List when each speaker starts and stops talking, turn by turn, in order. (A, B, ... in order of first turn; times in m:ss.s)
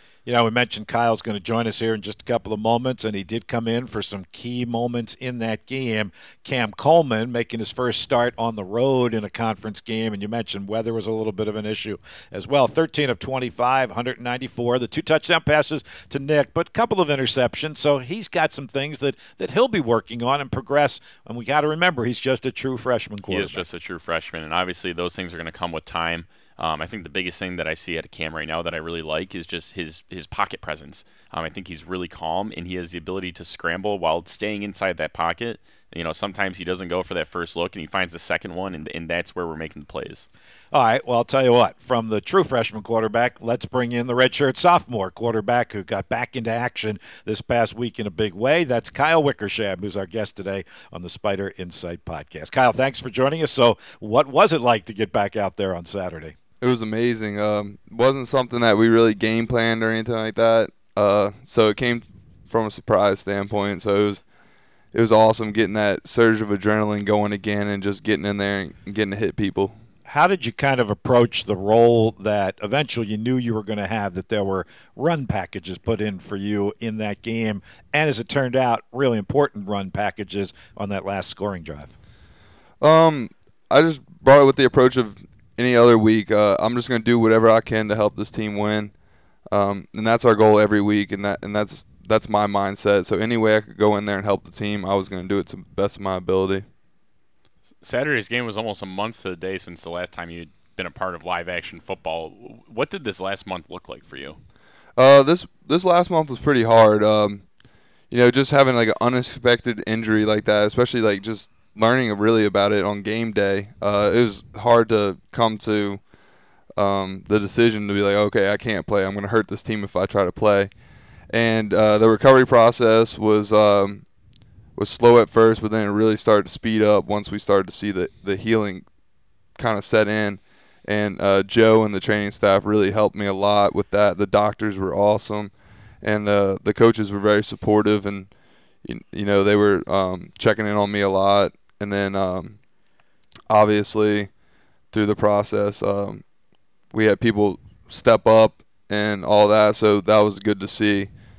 0:00.2-0:23.7 A
0:23.3-0:40.3 B
0:40.7-0:56.3 A
0:56.6-1:04.2 C
1:04.9-1:09.8 C
1:10.0-1:21.9 A
1:22.8-1:28.9 C
1:29.5-1:36.6 C
1:37.8-1:44.4 B
1:45.0-1:47.4 C
1:48.1-1:56.0 C
1:56.8-2:00.7 C
2:01.3-2:04.0 C
2:04.8-2:08.8 C
2:09.6-2:18.3 C
2:18.8-2:22.6 C
2:23.5-2:24.3 C
2:24.9-2:26.2 C
2:26.9-2:31.1 C